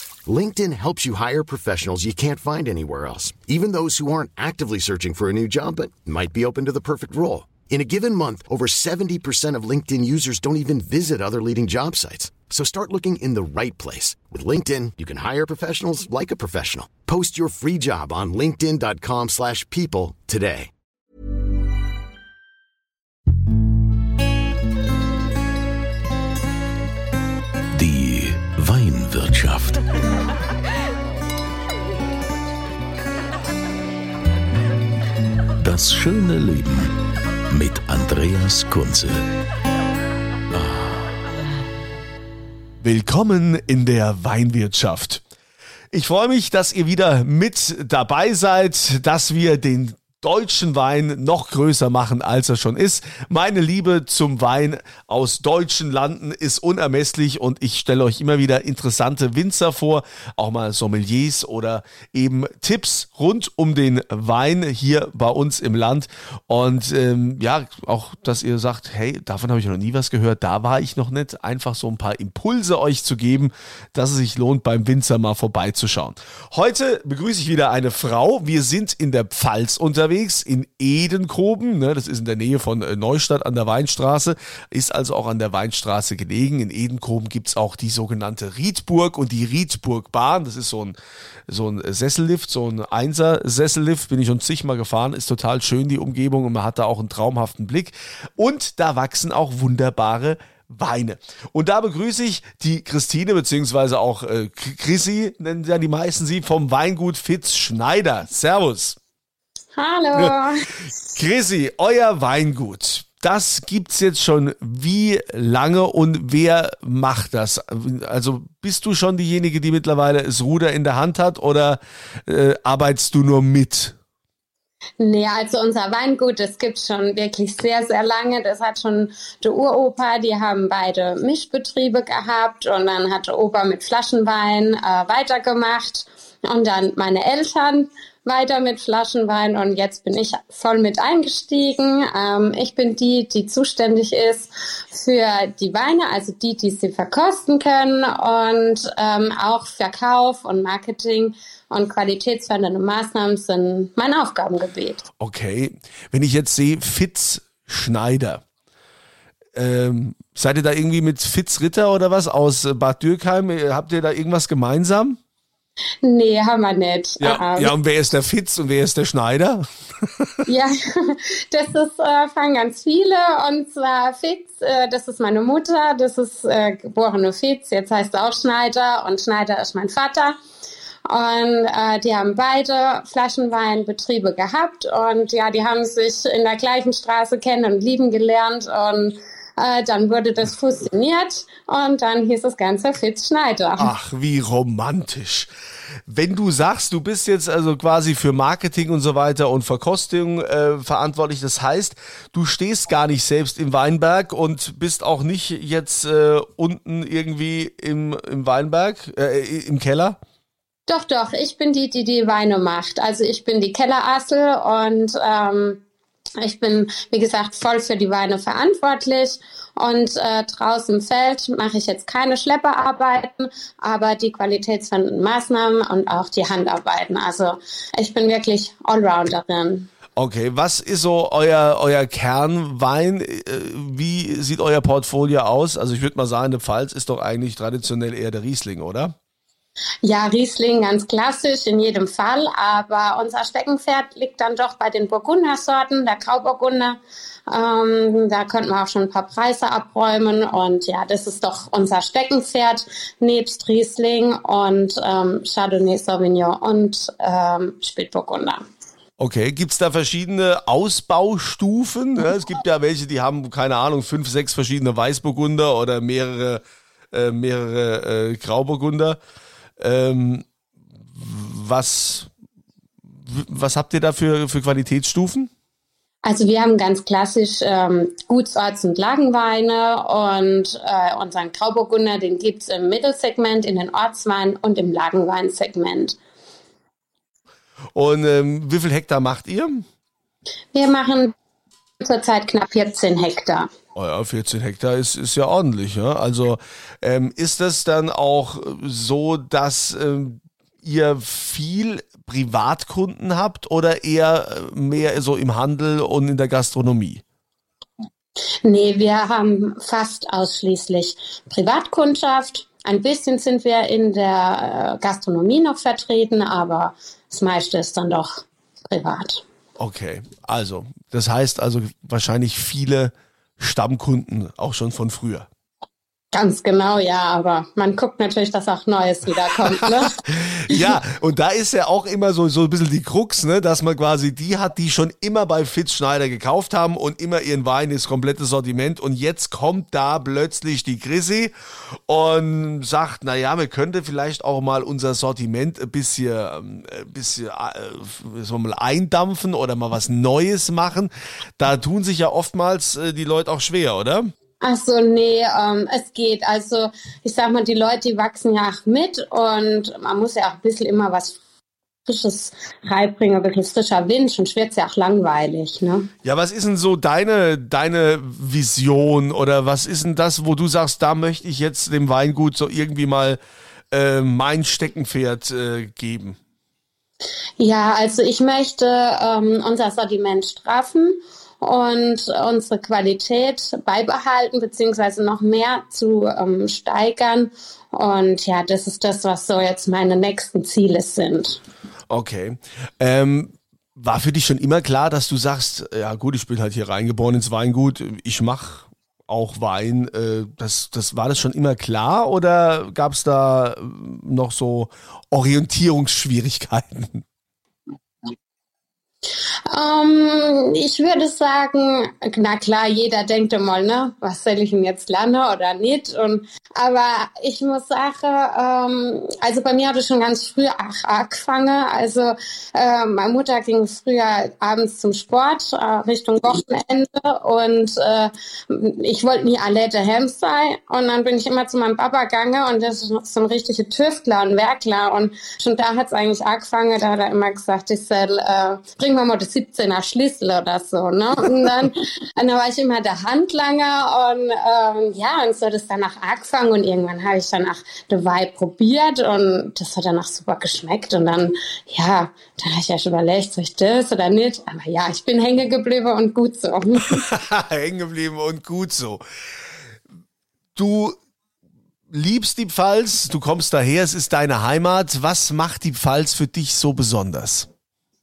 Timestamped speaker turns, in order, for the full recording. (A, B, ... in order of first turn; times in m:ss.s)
0:00.3-0:20.7 A
0:27.7-0:29.8 B
0:35.6-0:37.0 B
0:37.5-0:39.3 B
0:40.5-0:41.0 B
0:42.8-0:45.2 C
0:45.9-1:49.0 C
1:49.8-1:50.7 D
1:51.1-2:03.9 C
2:05.0-2:35.0 D
2:35.2-2:38.4 C
2:39.6-2:45.2 C
2:46.0-2:47.7 D
2:47.2-2:49.6 C
2:50.5-3:00.4 D
3:01.1-3:13.9 D
3:13.8-3:15.5 C
3:16.1-3:30.2 C
3:30.9-3:35.8 D
3:36.4-3:49.9 D
3:50.2-3:59.2 C
4:00.0-4:18.6 D
4:19.2-4:29.2 C
4:29.8-4:30.4 C
4:31.1-4:32.3 C
4:33.2-4:35.5 C
4:36.2-4:46.2 D
4:47.9-4:49.8 C
4:50.7-4:51.3 D
4:52.0-4:53.7 D
4:53.9-5:07.2 C
5:08.6-5:19.4 D
5:19.8-5:25.5 C
5:26.3-5:30.1 D
5:30.3-5:41.5 C
5:42.1-5:54.3 C
5:54.6-6:01.4 D
6:02.1-6:06.1 D
6:06.2-6:13.4 C
6:13.9-6:16.4 C
6:17.6-6:31.6 D
6:32.1-6:47.2 C
6:49.7-7:37.2 D
7:37.1-7:39.2 C
7:40.8-7:41.2 C
7:42.1-7:47.7 C